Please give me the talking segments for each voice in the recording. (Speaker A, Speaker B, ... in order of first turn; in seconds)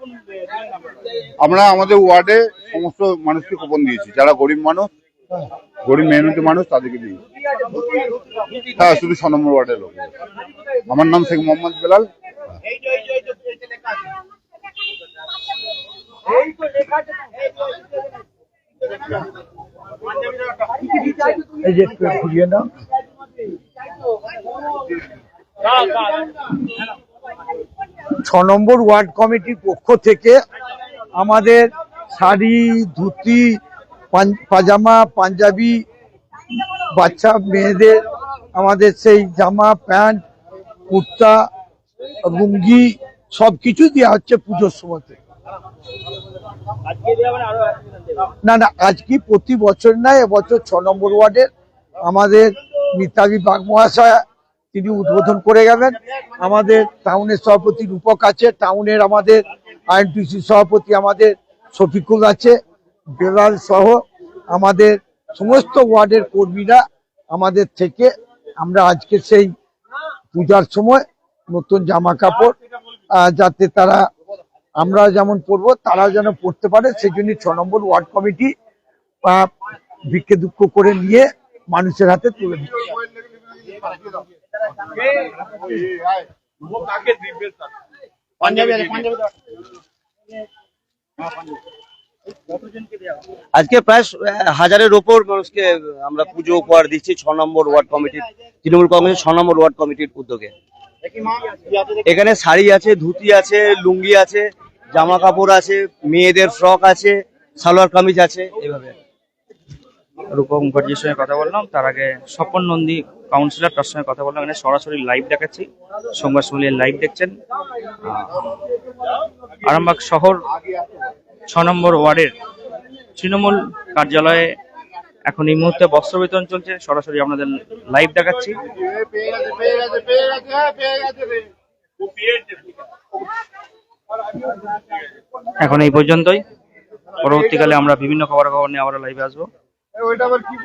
Speaker A: 1.4-4.9, 5.8-7.2, 8.6-10.1, 10.9-12.1, 83.0-84.2, 85.7-86.2, 128.7-131.5
Speaker B: 21.0-22.7, 28.2-30.4, 31.2-33.6, 34.1-35.8, 36.9-38.0, 38.5-40.2, 40.9-41.4, 42.2-45.2, 48.4-51.5, 52.0-54.2, 54.7-62.5, 63.2-69.5, 70.3-72.6, 73.2-74.0, 74.8-78.5, 79.2-79.5, 80.1-82.9
Speaker C: 93.5-100.5, 102.0-109.0
Speaker D: 110.3-117.3, 118.0-118.5, 119.6-120.4, 121.5-122.3, 123.2-124.5, 125.3-128.5, 135.6-136.4, 137.2-139.5